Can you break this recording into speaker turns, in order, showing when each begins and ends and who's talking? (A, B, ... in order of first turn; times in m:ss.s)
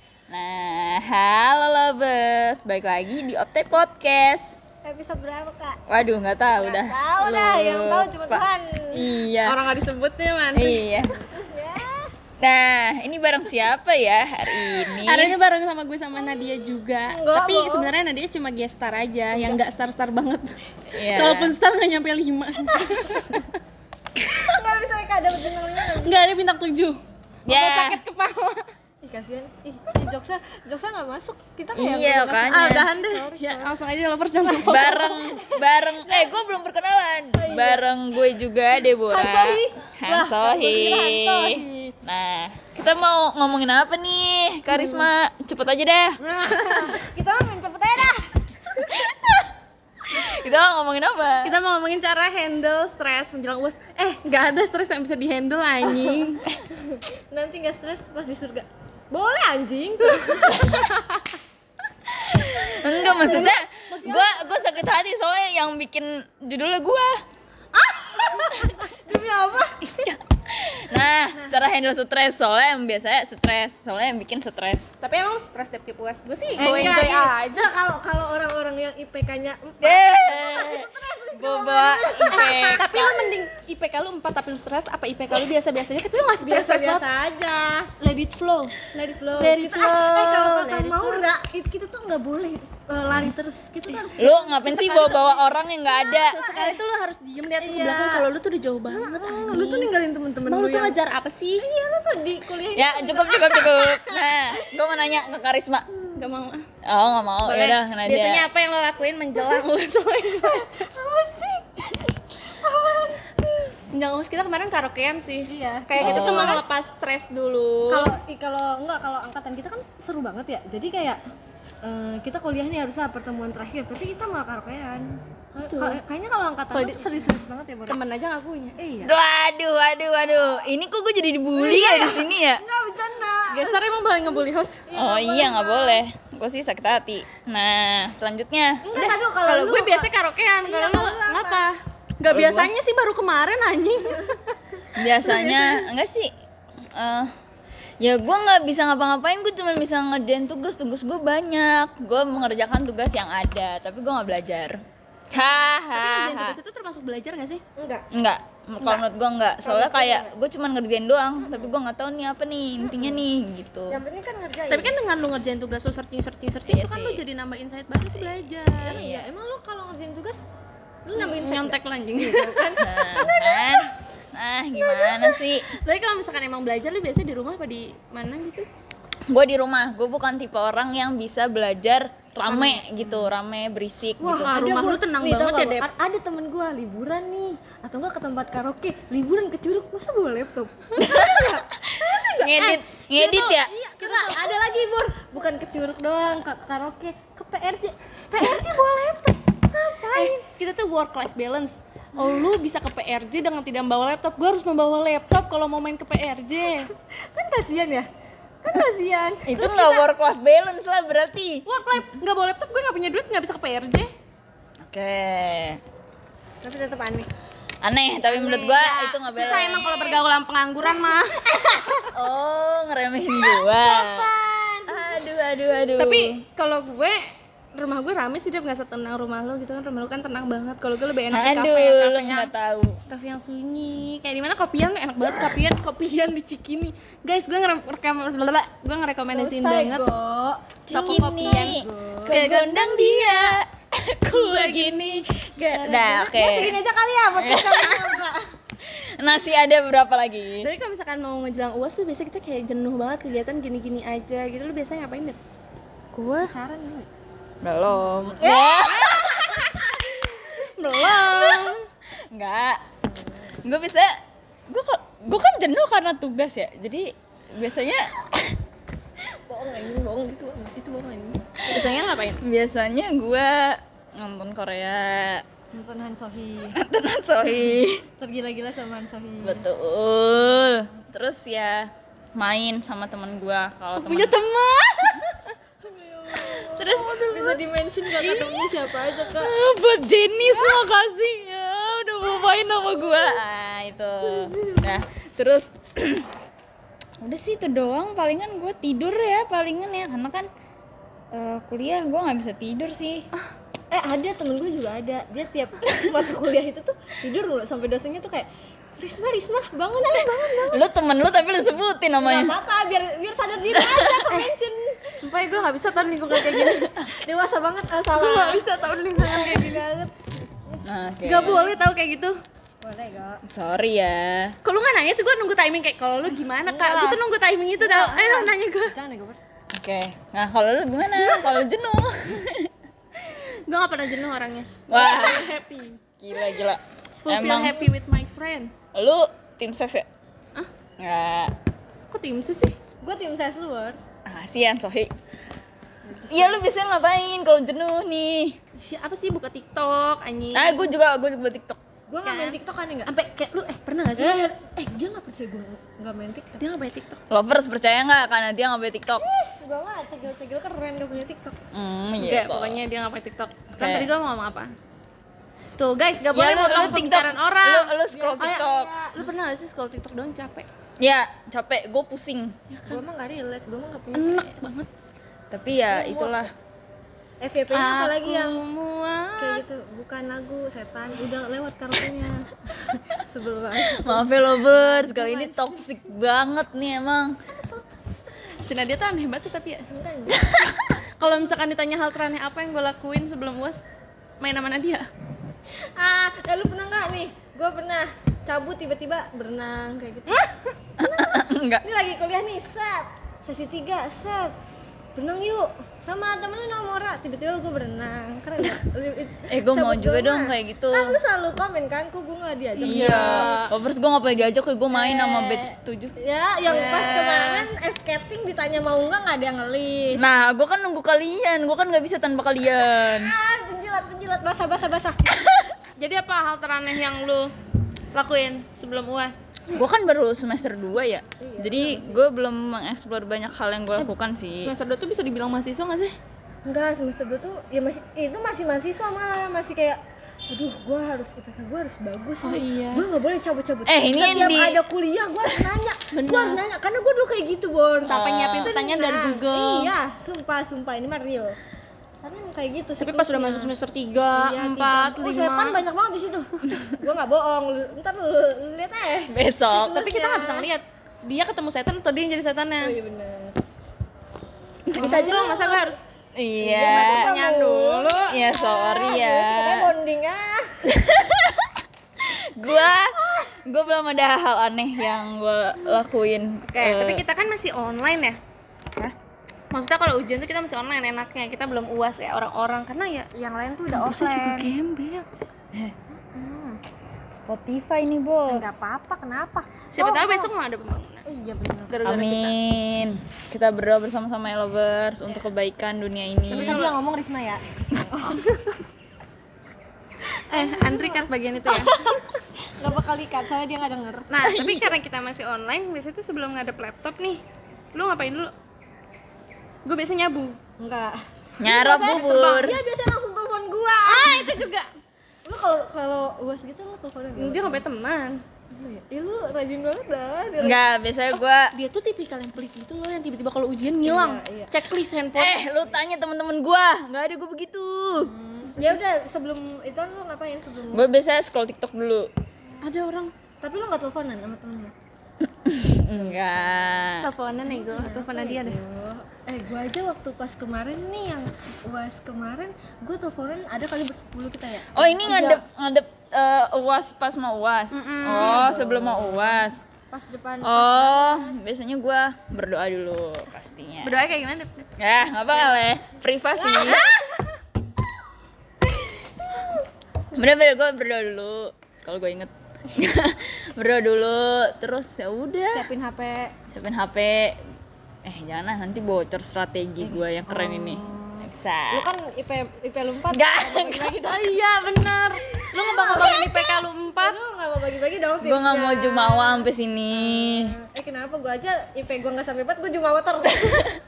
0:00.3-0:04.6 A
0:04.8-0:05.8 B
0:05.9-0:09.6 A
0:06.6-0:09.1 B
0:09.4-0:10.9 C
0:10.6-0:11.1 A
0:11.1-0:12.1 B
0:12.4-0:15.4 A
0:14.9-0:23.5 C
0:16.2-0:17.9 B
0:19.3-0:19.6 B
0:20.9-0:21.6 A
0:22.7-0:23.3 B
0:24.4-0:26.2 B
0:25.9-0:28.6 C
0:27.5-0:28.0 A
0:29.0-0:33.8 B
0:31.8-0:32.9 A
0:32.5-0:35.2 C
0:34.4-0:36.4 B
0:34.6-0:46.2 A
0:37.4-0:37.9 B
0:39.1-0:42.0 B
0:44.8-0:45.0 B
0:46.2-0:49.1 B
0:48.8-0:49.5 A
0:50.1-0:51.5 A
0:51.4-0:56.5 C
0:56.7-1:01.4 B
1:02.1-1:07.1 A
1:02.9-1:03.5 B
1:03.0-1:04.7 C
1:07.8-1:08.7 C
1:08.1-1:10.1 B
1:10.0-1:14.9 A
1:15.0-1:17.7 C
1:16.6-1:22.8 B
1:19.8-1:23.3 A
1:22.3-1:27.0 C
1:26.3-1:27.9 B
1:28.0-1:28.8 C
1:28.9-1:34.6 B
1:29.4-1:31.2 C
1:34.2-1:36.4 A
1:34.5-1:39.9 C
1:36.3-1:36.8 B
1:37.6-1:38.3 B
1:38.9-1:41.0 B
1:40.5-1:41.7 C
1:41.6-1:45.2 B
1:42.7-1:45.8 A
1:46.2-1:46.6 C
1:46.8-1:48.4 A
1:47.4-1:50.9 C
1:49.4-1:49.6 B
1:50.3-1:53.7 B
1:53.9-1:58.1 C
1:55.5-1:56.6 B
1:56.0-1:56.6 A
1:57.9-2:01.2 B
2:01.8-2:08.0 B
2:05.7-2:06.0 C
2:06.7-2:08.8 C
2:08.8-2:09.1 B
2:09.0-2:12.6 A
2:11.7-2:16.0 B
2:13.5-2:14.8 C
2:14.9-2:18.8 A
2:18.8-2:20.1 B
2:19.0-2:24.3 C
2:20.6-2:21.7 B
2:22.3-2:22.7 A
2:25.0-2:26.3 A
2:25.1-2:25.9 C
2:27.0-2:27.3 A
2:28.0-2:34.8 A
2:35.3-2:36.6 A
2:35.9-2:37.6 C
2:37.8-2:38.0 B
2:38.1-2:44.0 A
2:39.6-2:40.3 B
2:42.8-2:43.2 B
2:43.9-2:45.0 B
2:44.7-2:49.0 C
2:46.7-2:47.2 A
2:48.2-2:49.3 A
2:48.7-2:50.4 B
2:51.0-2:53.9 B
2:51.2-2:52.7 C
2:52.8-2:55.7 A
2:54.9-2:58.7 C
2:59.3-3:04.6 A
3:02.5-3:03.3 B
3:04.2-3:20.5 B
3:04.4-3:05.9 C
3:11.0-3:13.7 A
3:14.0-3:14.6 C
3:20.1-3:26.9 C
3:26.7-3:28.1 B
3:28.6-3:30.1 B
3:29.5-3:31.6 A
3:31.7-3:34.1 C
3:34.8-3:35.8 A
3:36.6-3:37.3 B
3:37.8-3:39.9 A
3:38.2-3:41.4 C
3:39.7-3:40.2 B
3:40.8-3:42.1 B
3:42.0-3:44.3 A
3:43.3-3:45.2 B
3:44.9-3:46.4 A
3:46.0-3:47.2 C
3:47.7-3:52.5 C
3:51.3-3:53.0 A
3:53.1-4:00.1 C
3:59.3-4:02.4 B
4:00.9-4:06.8 A
4:00.9-4:03.6 C
4:04.3-4:06.3 C
4:05.9-4:08.4 B
4:07.4-4:08.3 A
4:08.8-4:10.7 A
4:10.6-4:15.4 C
4:16.1-4:16.5 C
4:16.4-4:17.1 B
4:17.6-4:19.7 A
4:18.3-4:19.3 B
4:18.4-4:18.8 C
4:20.4-4:21.8 C
4:20.5-4:21.6 B
4:21.2-4:21.6 A
4:22.3-4:22.8 A
4:23.1-4:23.5 B
4:23.6-4:24.1 A
4:24.7-4:28.6 A
4:29.5-4:31.7 B
4:31.7-4:32.4 C
4:32.4-4:35.4 A
4:35.7-4:36.8 B
4:36.8-4:38.0 A
4:37.5-4:39.7 B
4:39.4-4:44.4 A
4:44.0-4:45.6 C
4:45.8-4:49.5 B
4:46.4-4:47.6 C
4:49.0-4:56.3 A
4:50.4-4:50.8 B
4:53.0-4:53.3 B
4:54.2-4:55.0 B
4:57.2-5:00.5 A
5:01.3-5:03.3 A
5:03.9-5:10.8 B
5:10.6-5:12.6 A
5:12.2-5:15.2 B
5:13.8-5:14.3 A
5:15.2-5:17.0 C
5:16.5-5:21.8 B
5:18.1-5:19.8 C
5:20.9-5:21.6 A
5:21.2-5:22.4 C
5:22.8-5:23.4 B
5:23.5-5:24.5 A
5:24.6-5:29.0 C
5:26.7-5:27.2 B
5:27.8-5:29.4 B
5:29.7-5:32.7 A
5:31.2-5:31.6 C
5:33.3-5:36.0 C
5:34.9-5:35.5 A
5:36.2-5:37.9 A
5:37.2-5:38.7 C
5:38.9-5:40.1 A
5:41.0-5:41.5 A
5:42.1-5:42.8 C
5:43.0-5:44.0 B
5:44.3-5:45.1 A
5:46.0-5:46.6 B
5:46.3-5:48.6 A
5:48.8-5:50.8 C
5:50.5-5:51.8 A
5:52.1-5:53.1 B
5:52.2-5:54.5 C
5:54.2-5:56.6 B
5:56.6-5:57.2 C
5:57.3-5:59.2 A
5:59.1-6:01.6 B
6:01.7-6:02.8 A
6:02.2-6:04.7 C
6:03.8-6:04.1 A
6:05.8-6:10.7 C
6:06.3-6:08.9 A
6:08.1-6:09.3 B
6:11.0-6:12.6 A
6:12.7-6:13.0 C
6:12.9-6:14.5 B
6:14.1-6:14.9 C
6:15.5-6:16.5 A
6:15.9-6:16.5 B
6:17.4-6:18.6 B
6:17.7-6:19.6 C
6:19.4-6:25.8 B
6:23.9-6:27.3 A
6:27.5-6:28.5 B
6:28.6-6:29.9 C
6:29.9-6:30.6 B
6:31.2-6:33.8 C
6:34.4-6:35.1 C
6:36.0-6:44.5 B
6:41.0-6:41.8 A
6:45.2-6:53.5 B
6:49.5-6:51.2 A
6:52.8-6:53.7 C
6:52.9-6:56.2 A
6:55.0-6:55.3 B
6:56.2-7:00.2 B
6:56.7-6:57.4 C
6:56.9-6:57.6 A
7:00.2-7:03.4 A
7:02.9-7:05.3 B
7:06.0-7:07.5 C
7:08.1-7:09.8 C
7:09.7-7:14.7 A
7:11.4-7:12.2 B
7:14.6-7:16.1 C
7:16.6-7:31.6 B
7:22.4-7:23.1 C
7:23.9-7:24.8 A
7:26.1-7:26.6 C
7:28.0-7:29.9 C
7:28.1-7:28.7 A
7:32.2-7:33.7 B
7:33.0-7:35.8 C
7:34.3-7:40.7 B
7:39.3-7:40.0 A
7:39.9-7:43.0 C
7:42.8-7:43.6 B
7:44.9-7:45.8 A
7:45.0-7:46.0 C
7:45.0-7:45.9 B
7:46.4-7:47.3 A
7:46.6-7:50.7 B
7:46.8-7:48.3 C
7:48.3-7:49.9 A
7:50.9-7:57.2 A
7:52.7-7:53.5 B
7:56.7-7:58.4 C
7:59.7-8:03.3 C
8:03.3-8:04.8 B
8:03.9-8:05.3 C
8:06.2-8:06.8 B
8:07.3-8:08.8 A
8:08.5-8:10.5 B
8:09.9-8:11.3 C
8:11.3-8:12.0 B
8:11.9-8:12.6 C
8:12.0-8:16.9 A
8:16.5-8:18.8 B
8:16.5-8:16.9 C
8:20.5-8:21.9 C
8:20.5-8:22.2 B
8:22.8-8:24.6 B
8:24.3-8:27.4 C
8:24.5-8:24.9 A
8:27.9-8:28.5 C
8:29.8-8:30.6 C
8:30.8-8:34.7 B
8:31.6-8:32.8 A
8:34.0-8:34.9 C
8:35.4-8:37.8 B
8:37.4-8:38.4 C
8:38.7-8:40.8 B
8:40.6-8:41.7 A
8:41.7-8:45.7 C
8:44.0-8:44.7 B
8:45.4-8:48.3 A
8:48.1-8:51.1 B
8:48.7-8:49.0 C
8:50.9-8:52.3 A
8:52.8-8:53.3 C
8:53.6-8:54.9 B
8:55.6-8:57.3 A
8:56.1-8:56.9 B
8:57.2-8:58.8 C
8:57.7-9:05.6 B
9:04.9-9:09.8 A
9:05.3-9:05.6 C
9:07.9-9:08.7 C
9:08.3-9:11.6 B
9:10.6-9:14.2 A
9:14.0-9:14.9 C
9:15.0-9:17.0 A
9:16.6-9:17.2 B
9:16.9-9:17.3 C
9:20.3-9:25.9 A
9:25.7-9:26.5 B
9:26.7-9:27.6 A
9:28.2-9:32.1 A
9:30.0-9:34.5 B
9:33.3-9:34.3 A
9:34.2-9:37.4 C
9:35.8-9:43.9 B
9:38.4-9:40.8 A